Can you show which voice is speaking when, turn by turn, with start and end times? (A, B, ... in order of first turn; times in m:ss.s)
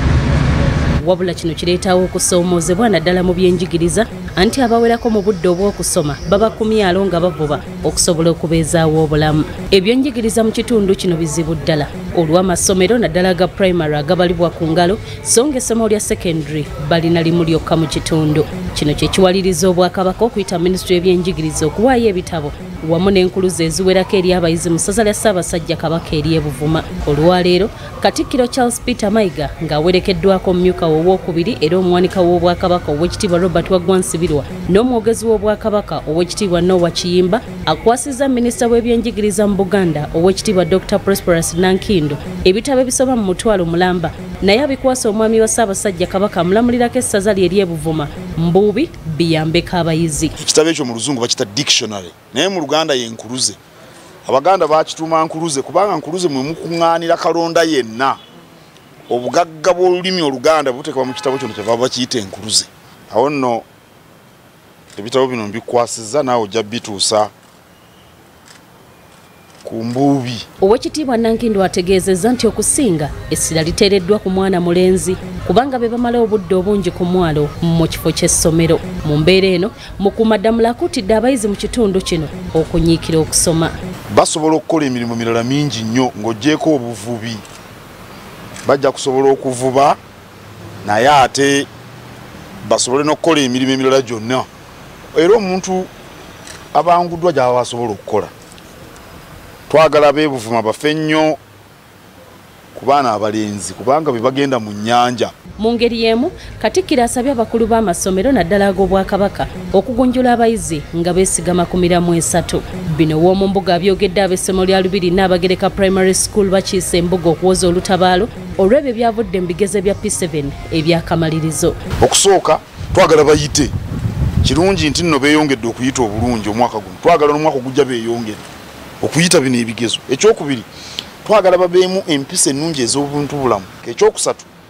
0:01.0-0:50.3 A
0:50.4-0:53.6 B
0:54.2-0:58.2 B
0:59.1-1:03.6 B
1:05.0-1:07.3 B
1:09.6-1:10.4 B
1:10.6-1:23.7 A
1:24.1-1:27.4 B
1:28.6-1:30.0 B
1:30.8-1:31.7 B
1:32.6-1:34.5 B
1:35.1-1:35.9 B
1:36.7-1:38.3 B
1:39.7-1:41.4 B
1:42.7-1:45.3 B
1:45.6-2:01.8 A
2:02.0-2:03.7 B
2:04.4-2:08.4 B
2:09.0-2:10.6 B
2:11.2-2:14.5 B